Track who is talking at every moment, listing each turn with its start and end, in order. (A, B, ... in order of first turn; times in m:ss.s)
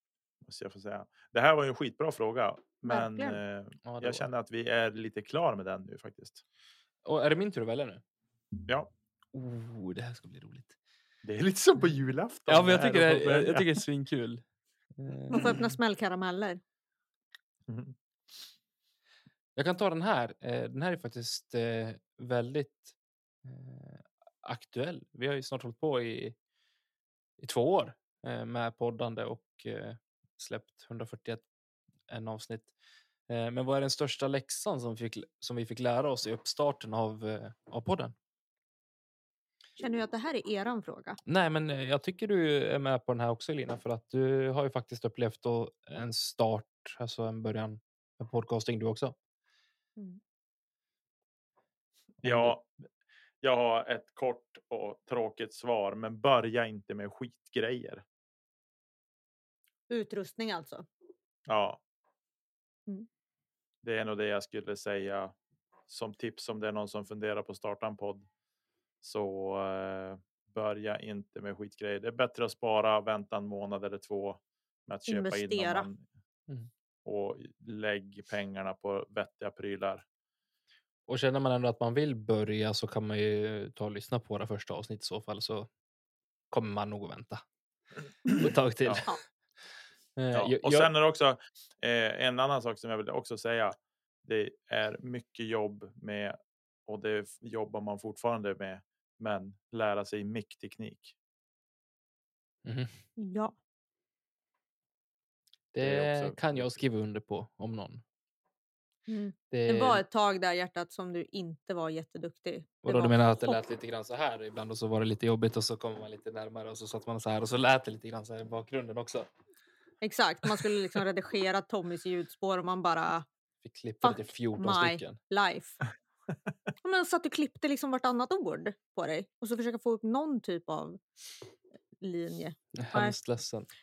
0:00.4-0:06.4 A
0:02.8-0:03.4 B
0:03.8-0:04.3 C
0:07.0-0:08.0 C
0:09.3-0:10.8 C
0:11.2-0:13.7 A
0:12.5-0:14.4 C
0:15.0-0:15.6 C
0:15.3-0:16.6 B
0:17.7-0:18.0 A
0:19.6-0:22.9 C
0:23.4-0:26.4 C
0:27.4-0:31.4 C
0:32.1-0:32.7 C
0:33.3-0:38.2 C
0:39.8-0:41.2 B
0:41.3-0:49.2 C
0:52.2-0:52.6 C
0:52.2-0:52.8 A
0:53.4-0:58.0 A
0:59.9-1:00.9 B
1:01.5-1:01.8 A
1:03.8-1:05.3 A
1:05.9-1:08.3 A
1:09.0-1:16.0 A
1:15.1-1:15.9 B
1:17.0-1:20.0 A
1:21.1-1:25.7 C
1:26.5-1:27.4 C
1:28.4-1:29.2 C
1:30.2-1:30.9 C
1:30.3-1:41.2 A
1:42.6-1:43.0 C
1:43.2-1:43.6 B
1:45.7-1:48.0 C
1:45.8-1:46.8 A
1:49.1-1:53.6 B
1:49.5-1:50.0 C
1:52.8-1:59.3 C
2:00.0-2:03.3 B
2:03.6-2:05.2 C
2:04.0-2:05.8 B
2:06.8-2:11.0 B
2:12.0-2:13.2 B
2:12.8-2:13.7 C